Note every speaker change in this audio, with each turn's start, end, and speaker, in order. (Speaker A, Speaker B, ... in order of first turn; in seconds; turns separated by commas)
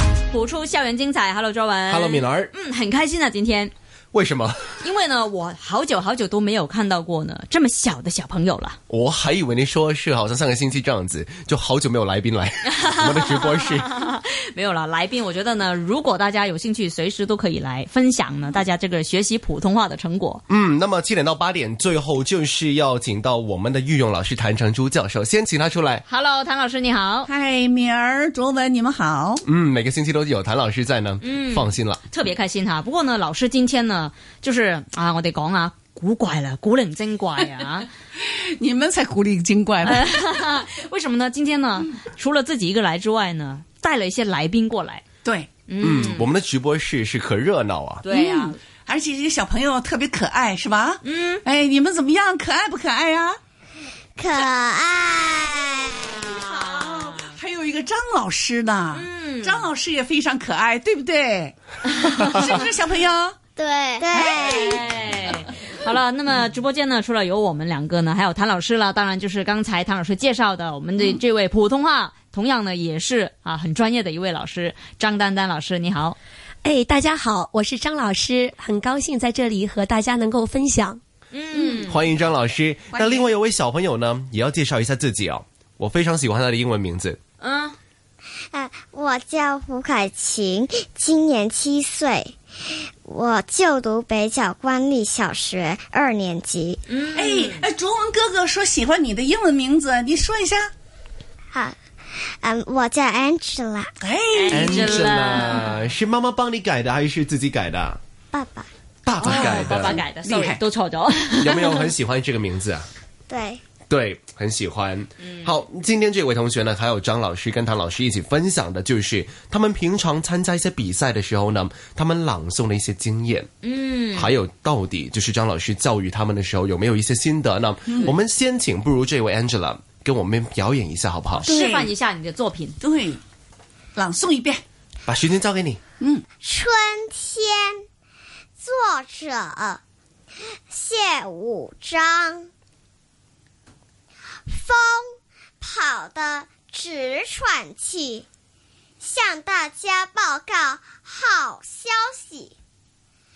Speaker A: 0.3-3.7, Speaker B: 1.9-2.5, Speaker B: 4.1-4.7, Speaker A: 4.8-8.8, Speaker B: 8.9-13.9, Speaker A: 12.7-20.4, Speaker B: 20.5-26.0, Speaker A: 26.1-27.3, Speaker C: 27.2-29.4, Speaker B: 29.4-32.0, Speaker A: 31.2-37.9, Speaker C: 38.1-40.1, Speaker A: 39.8-45.0, Speaker C: 45.2-45.5, Speaker A: 45.7-46.3, Speaker B: 45.8-48.0, Speaker A: 48.0-48.6, Speaker C: 48.0-53.4, Speaker A: 51.0-51.4, Speaker D: 54.2-56.4, Speaker C: 56.3-63.4, Speaker A: 56.4-57.2, Speaker A: 58.9-59.7, Speaker A: 62.0-62.3, Speaker D: 63.6-64.7, Speaker C: 64.1-64.9, Speaker A: 64.5-76.2, Speaker E: 76.6-81.0, Speaker A: 81.3-82.0, Speaker B: 81.8-87.2, Speaker C: 82.9-83.3, Speaker A: 87.4-87.8, Speaker D: 88.5-92.3, Speaker D: 93.0-96.8, Speaker A: 96.9-97.7, Speaker C: 97.1-100.7, Speaker D: 101.5-103.9, Speaker C: 104.0-105.0, Speaker A: 104.3-105.8, Speaker B: 104.5-108.0, Speaker D: 108.3-108.7, Speaker B: 109.0-110.0, Speaker A: 109.2-111.8, Speaker C: 109.2-110.6, Speaker B: 111.4-112.9, Speaker D: 113.3-113.6, Speaker B: 113.9-123.5, Speaker A: 123.6-124.3, Speaker B: 124.1-131.5, Speaker C: 131.4-131.9, Speaker A: 131.4-132.8, Speaker C: 132.8-133.2, Speaker C: 133.9-134.6, Speaker B: 135.1-135.8, Speaker D: 136.4-137.8, Speaker D: 138.6-139.8, Speaker D: 140.7-142.5, Speaker D: 144.5-145.1, Speaker D: 145.6-148.2, Speaker D: 149.0-152.5